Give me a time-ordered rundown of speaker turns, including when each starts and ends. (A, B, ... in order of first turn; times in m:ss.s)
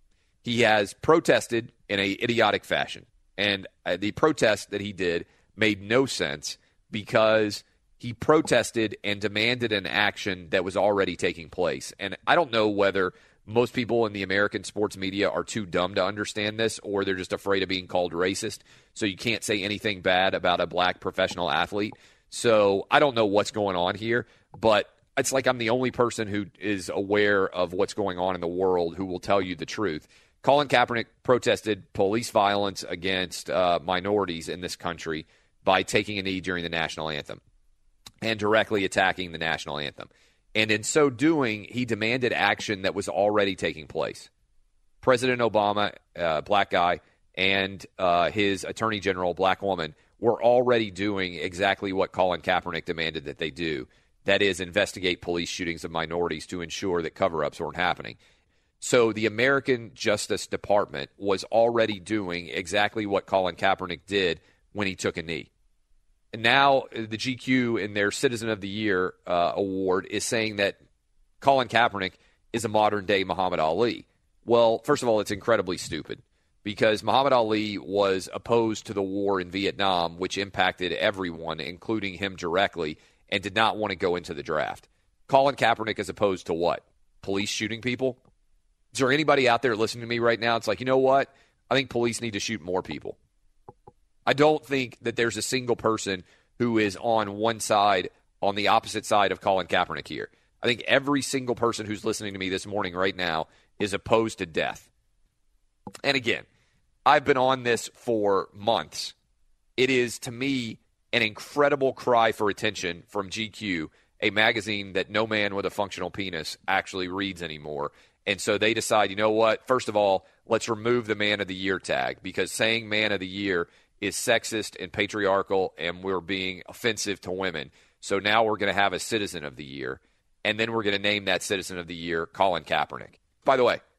0:00.4-0:37.4 A
0:38.2-0:44.3 A
0:45.0-0:58.2 A
0:58.8-1:05.5 A
1:06.3-1:10.8 A
1:11.4-1:28.2 A
1:28.9-1:33.2 A
1:34.3-1:44.9 A
1:46.0-1:46.4 A
1:47.1-1:49.2 A
1:49.8-2:13.8 A